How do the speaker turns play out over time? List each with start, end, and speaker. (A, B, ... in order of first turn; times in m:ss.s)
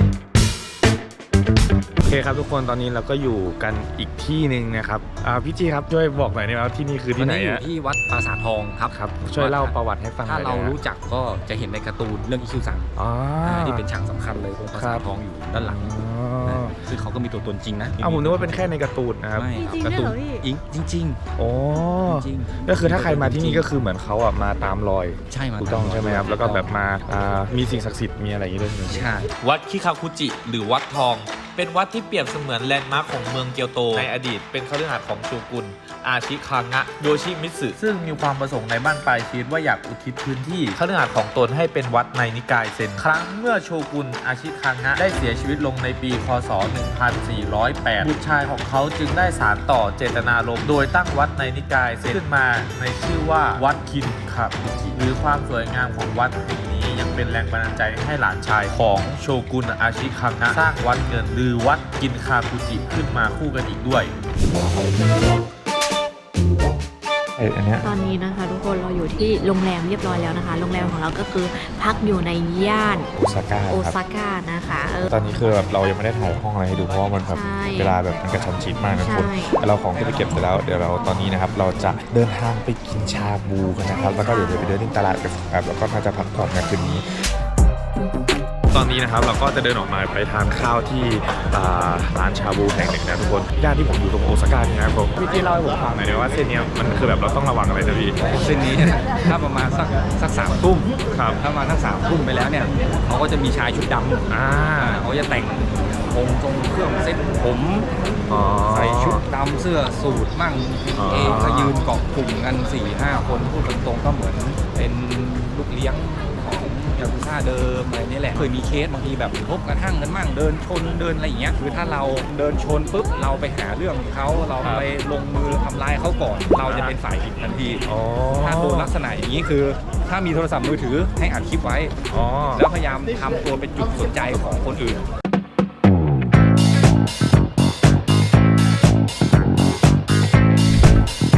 0:02.0-0:07.6 A
0:07.2-0:09.7 B
0:08.9-0:10.8 A
0:10.2-0:12.9 B
0:13.0-0:13.9 A
0:13.4-0:15.8 B
0:14.7-0:16.8 A
0:16.4-0:18.7 B
0:18.0-0:19.5 A
0:19.3-0:21.2 B
0:19.6-0:20.4 C
0:21.4-0:29.1 A
0:22.0-0:23.7 B
0:25.3-0:26.8 B
0:28.9-0:29.3 B
0:29.4-1:04.1 D
0:54.6-0:54.9 A
1:07.4-1:07.9 A
1:07.8-1:13.1 C
1:13.2-1:14.0 A
1:13.7-1:15.1 C
1:15.0-1:27.0 A
1:17.3-1:18.0 C
1:19.0-1:19.5 C
1:23.9-1:24.8 C
1:28.7-1:38.2 A
1:38.2-1:47.9 B
1:41.1-1:41.4 A
1:44.3-1:45.0 A
1:48.3-1:49.2 A
1:48.7-2:11.9 B
1:50.9-1:51.8 A
2:04.6-2:04.9 A
2:06.6-2:07.0 A
2:07.8-2:08.9 A
2:12.1-2:12.6 A
2:12.5-2:15.0 B